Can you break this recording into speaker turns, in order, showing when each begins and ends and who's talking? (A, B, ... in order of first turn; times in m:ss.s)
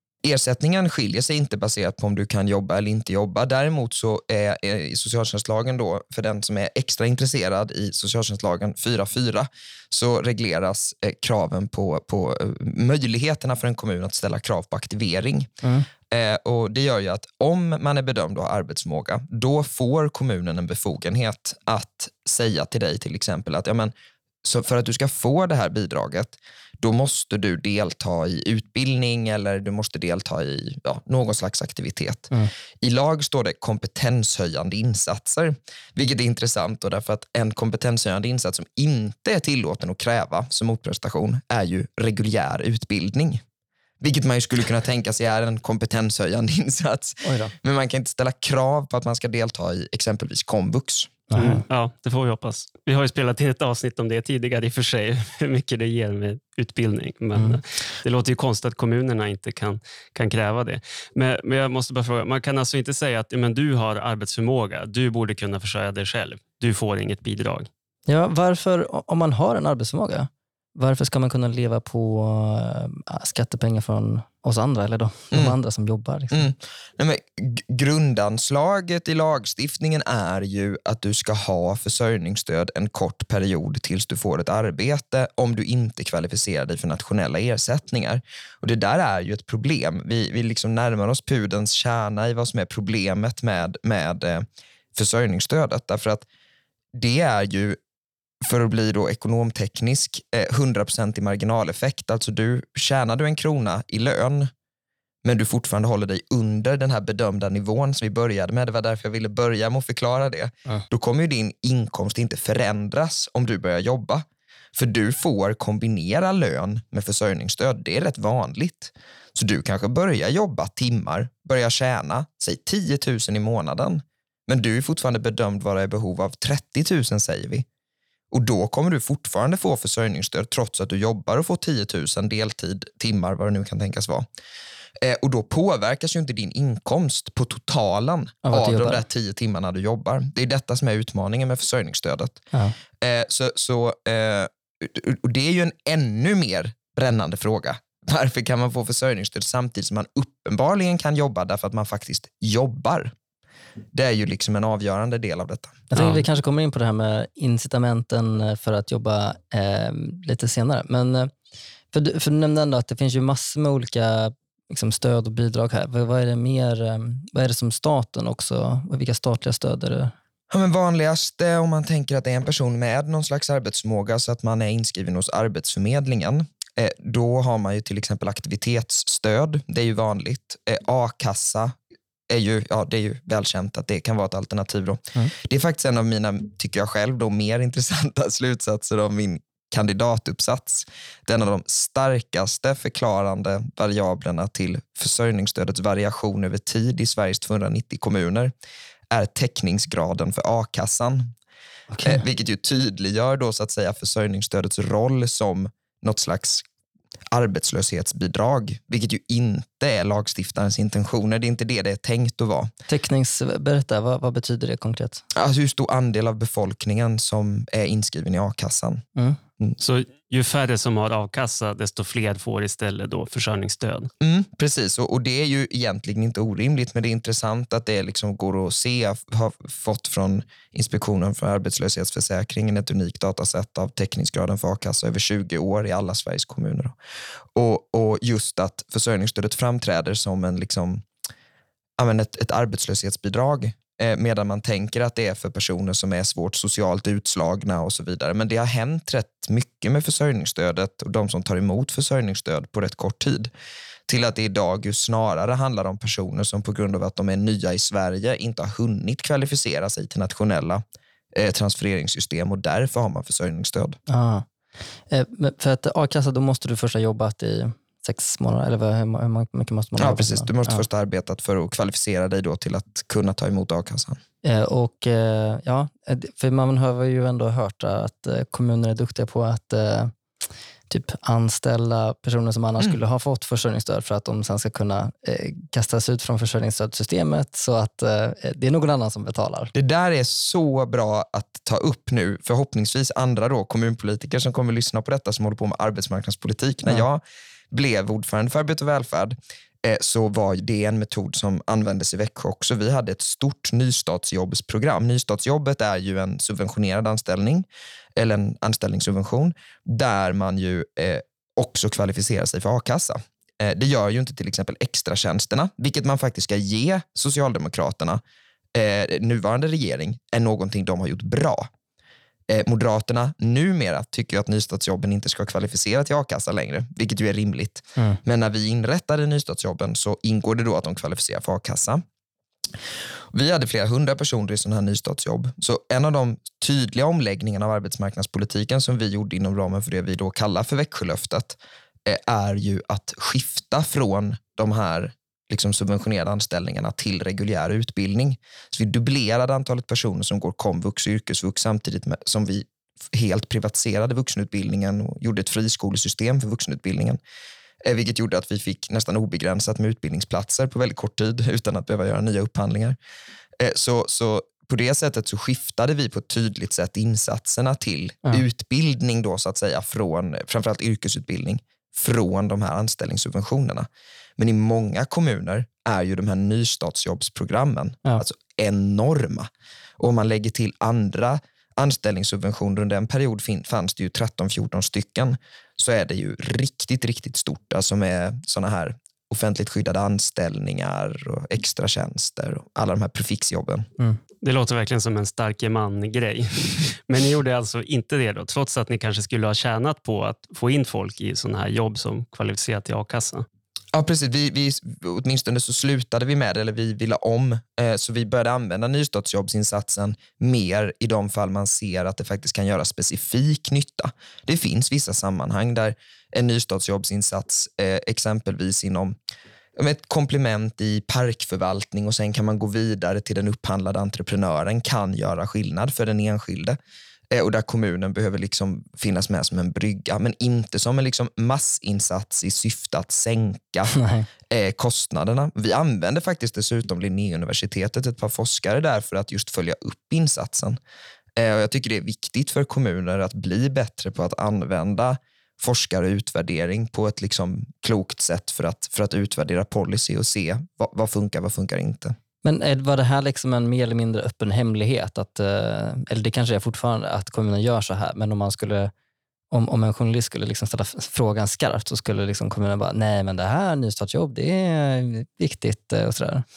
0:00.2-0:15.5 A
0:16.1-0:23.9 A
0:24.4-0:43.4 A
0:44.0-0:51.1 A
0:47.2-0:47.5 B
0:51.3-0:51.6 B
0:51.4-1:07.7 C
0:57.3-0:57.6 B
1:08.1-1:16.5 B
1:16.3-1:36.2 A
1:36.9-1:37.8 A
1:38.4-1:44.5 A
1:45.2-2:07.6 A
2:08.3-2:14.2 A
2:15.0-2:22.4 A
2:18.4-2:19.0 B
2:23.0-2:33.1 A
2:33.9-2:35.9 A
2:35.9-2:41.3 B
2:35.9-2:36.2 C
2:41.9-2:50.1 B
2:50.5-3:01.8 A
3:02.3-3:18.5 A
3:19.1-3:21.3 A
3:21.9-3:22.2 B
3:22.0-3:26.6 A
3:27.3-3:32.7 A
3:32.9-3:35.2 B
3:35.3-3:39.0 A
3:39.8-3:44.1 C
3:44.2-3:56.9 A
3:57.5-4:01.0 A
4:02.0-4:13.5 A
4:14.1-4:24.0 A
4:24.1-4:24.4 B
4:25.1-4:30.8 B
4:30.0-4:34.2 A
4:34.4-4:40.1 B
4:40.9-4:49.7 B
4:49.7-5:18.2 A
5:18.7-5:21.7 A
5:22.5-5:32.0 A
5:33.3-5:57.2 A
5:57.8-6:03.0 A
6:03.6-6:13.9 A
6:14.4-6:33.9 A
6:34.4-6:43.4 C
6:43.9-6:59.2 A
6:59.8-7:06.8 A
7:07.3-7:14.0 A
7:13.9-7:14.3 B
7:14.5-7:20.8 A
7:21.4-7:32.2 A
7:32.4-7:38.9 B
7:39.5-7:46.4 B